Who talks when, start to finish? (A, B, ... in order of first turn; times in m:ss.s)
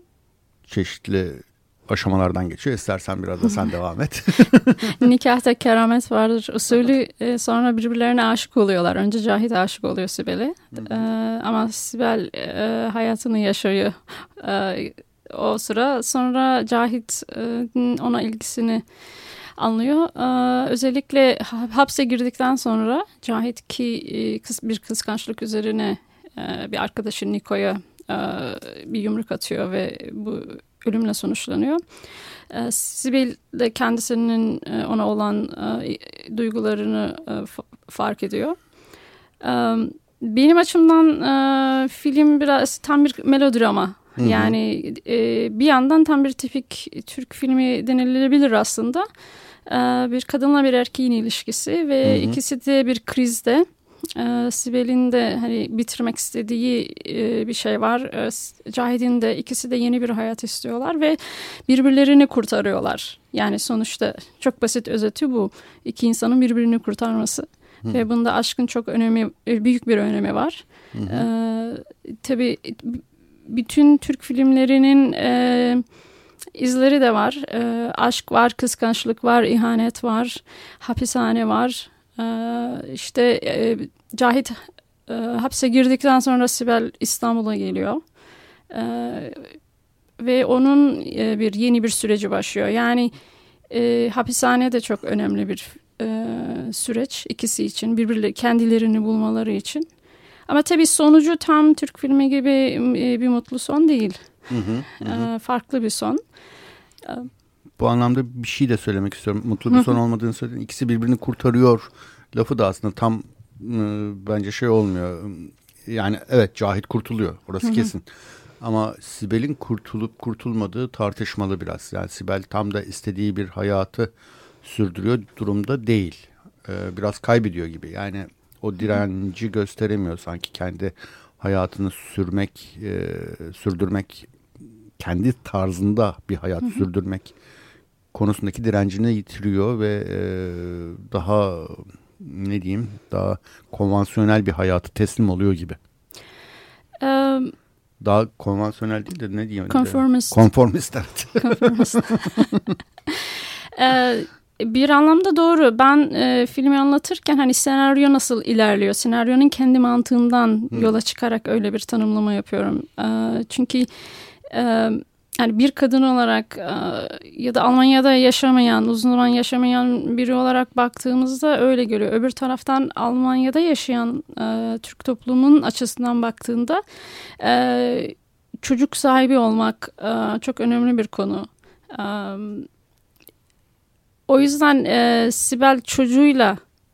0:00.7-0:05.0 A
0:04.9-0:18.8 B
0:19.6-0:31.8 B
0:32.5-0:38.6 B
0:39.4-0:49.1 B
0:44.2-0:44.6 A
0:49.7-1:15.8 B
0:52.0-0:52.4 A
1:10.9-1:11.3 A
1:16.6-1:28.0 B
1:28.7-1:29.5 B
1:30.2-1:33.1 B
1:33.7-1:39.9 B
1:40.5-1:44.2 B
1:44.5-1:45.3 A
1:45.0-1:46.2 B
1:47.8-1:58.0 A
1:57.6-1:57.9 B
1:58.6-2:04.1 A
2:04.6-2:14.3 A
2:15.0-2:17.3 A
2:18.1-2:25.8 A
2:27.0-2:27.5 B
2:28.0-2:32.6 A
2:29.7-2:30.4 B
2:31.4-2:32.3 B
2:33.8-2:43.9 B
2:44.5-2:56.8 B
2:57.4-3:02.7 B
3:04.3-3:06.6 B